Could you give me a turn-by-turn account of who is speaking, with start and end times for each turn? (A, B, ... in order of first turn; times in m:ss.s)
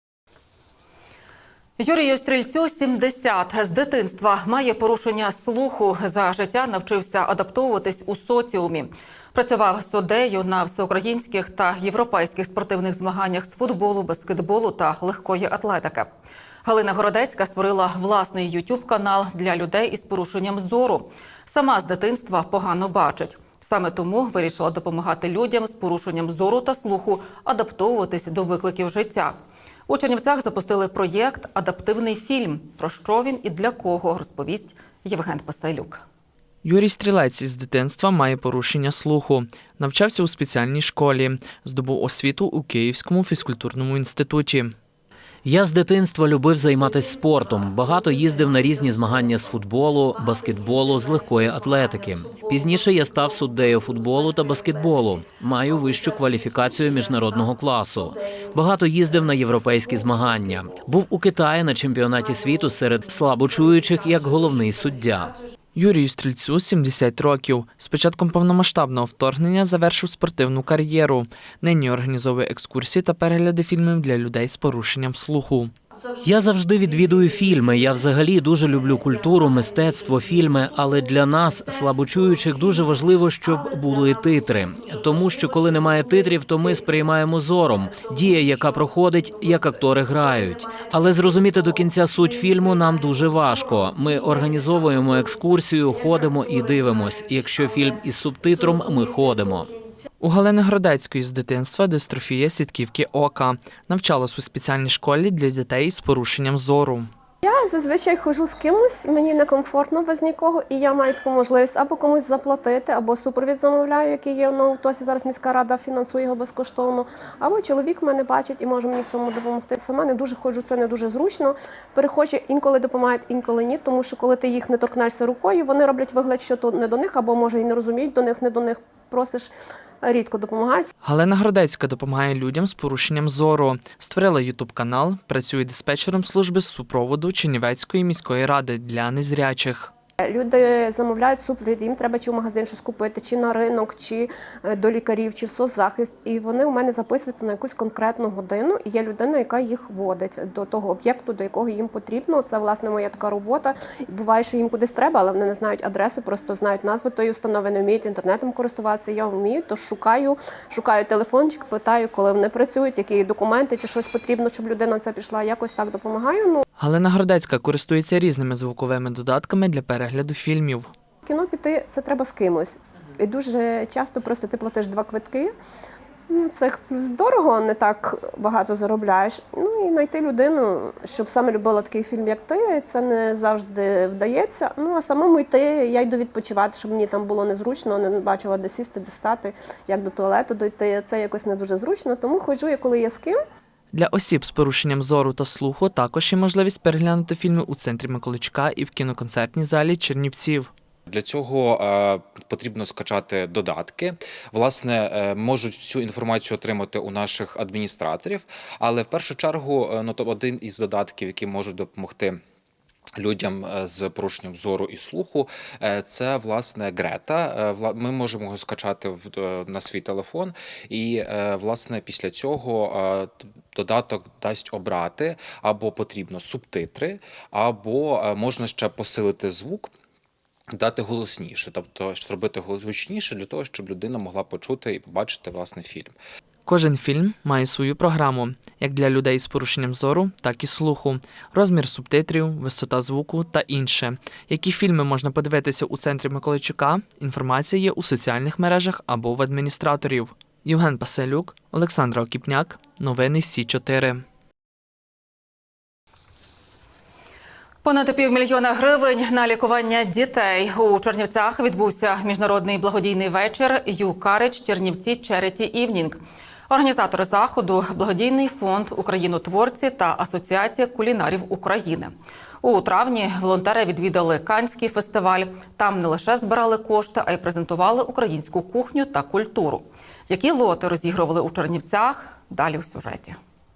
0:01.8-0:16.1 A
0:16.6-0:29.3 A
0:29.9-0:36.0 A
0:36.6-0:44.7 B
0:45.4-1:05.3 C
1:05.8-1:15.7 B
1:16.2-1:39.7 C
1:40.2-1:47.1 B
1:47.4-2:10.9 D
2:11.0-2:19.9 B
2:20.2-2:46.6 D
2:46.8-2:50.9 B
2:51.2-2:55.5 D
2:56.3-3:13.4 D
3:13.9-3:20.7 B
3:21.1-3:32.4 E
3:33.2-3:49.9 E
3:50.8-3:56.2 E
3:56.7-4:14.2 B
4:17.8-4:26.2 A
4:26.7-4:32.1 A
4:32.6-4:43.4 A